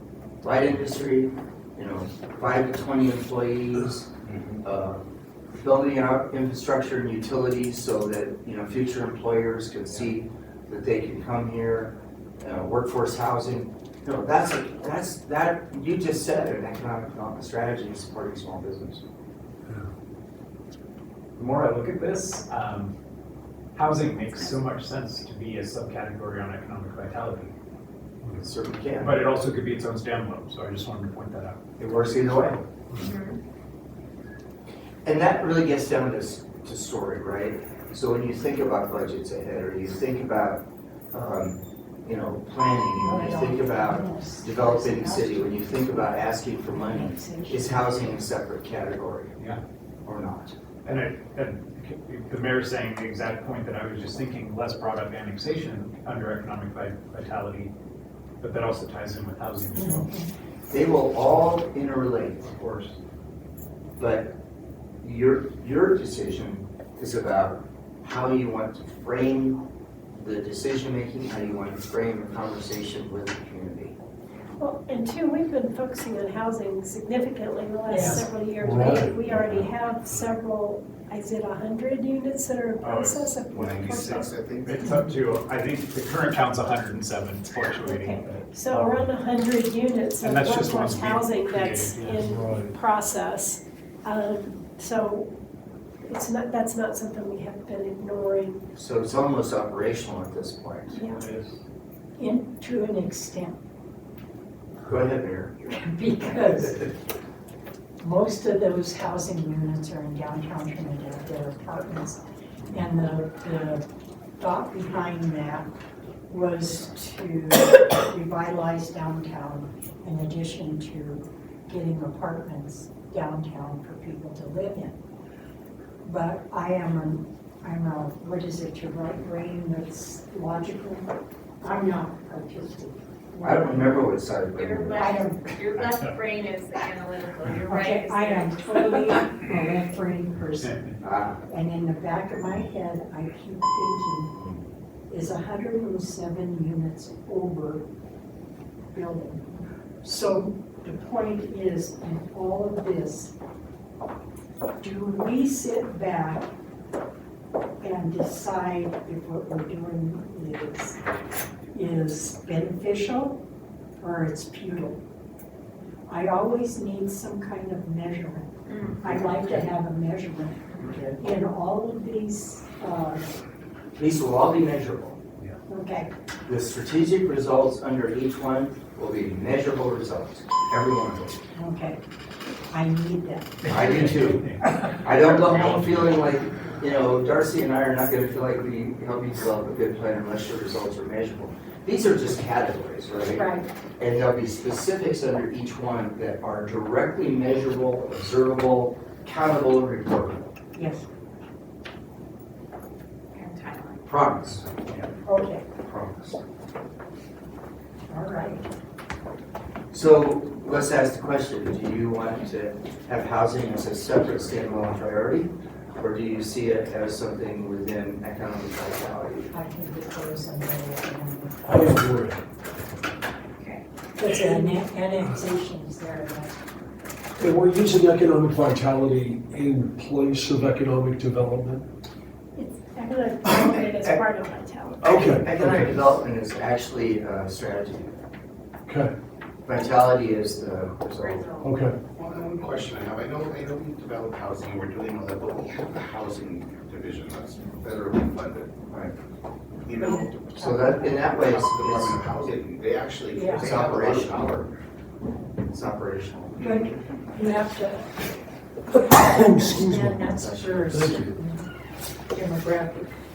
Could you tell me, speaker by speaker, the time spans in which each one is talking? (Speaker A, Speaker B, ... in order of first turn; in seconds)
Speaker A: 0.4-4.1, 4.6-5.0, 5.6-19.0, 28.3-29.2, 31.8-32.6, 35.0-49.4, 50.0-50.5, 60.7-62.6, 64.0-64.4, 65.0-69.6, 70.2-74.0, 98.8-101.0, 104.9-105.7, 133.4-135.2, 141.0-141.4, 173.9-175.2, 176.5-181.4, 183.7-200.5, 204.1-205.1, 205.8-206.4, 209.9-219.5, 233.4-234.2, 235.0-238.2, 239.7-241.5, 248.9-249.1, 250.6-252.3, 253.6-254.4, 255.7-256.9, 260.4-260.9
Speaker B: 4.2-4.6, 83.5-84.8, 242.1-248.7, 249.9-250.4, 251.3-254.7, 256.6-256.9
Speaker C: 21.4-22.9, 23.8-27.5, 29.0-31.6, 50.8-57.7, 58.4-60.1, 62.5-63.0, 82.8-83.5, 84.7-88.8, 90.2-92.1, 101.1-101.5, 135.8-136.1, 140.6-140.9, 183.7-186.2
Speaker D: 43.0-48.1, 59.8-60.3, 77.9-78.2, 102.2-103.6, 105.7-106.9, 108.0-113.9, 114.4-115.7, 116.3-125.0, 126.0-134.0, 135.0-135.4, 137.7-140.8, 141.4-144.3, 145.1-147.9, 148.9-149.5, 150.0-153.3, 154.8-156.5, 157.8-161.0, 161.7-163.4, 164.0-165.0, 166.1-173.2, 175.7-176.1, 181.5-182.0, 182.7-184.1, 193.3-193.7, 200.8-201.1, 205.2-205.7, 208.1-208.6, 219.5-221.7, 224.2-226.6, 250.0-251.4, 253.3-253.7, 256.6-258.1, 259.0-261.6, 262.3-263.1
Speaker E: 74.6-84.4, 87.8-95.3, 96.1-98.6, 100.9-101.3, 232.6-235.0
Speaker F: 78.6-79.2, 92.0-92.7, 221.7-222.4, 227.4-231.9, 235.0-236.1, 238.9-239.1, 241.6-242.0, 259.2-260.2, 260.9-261.4
Speaker G: 135.6-138.2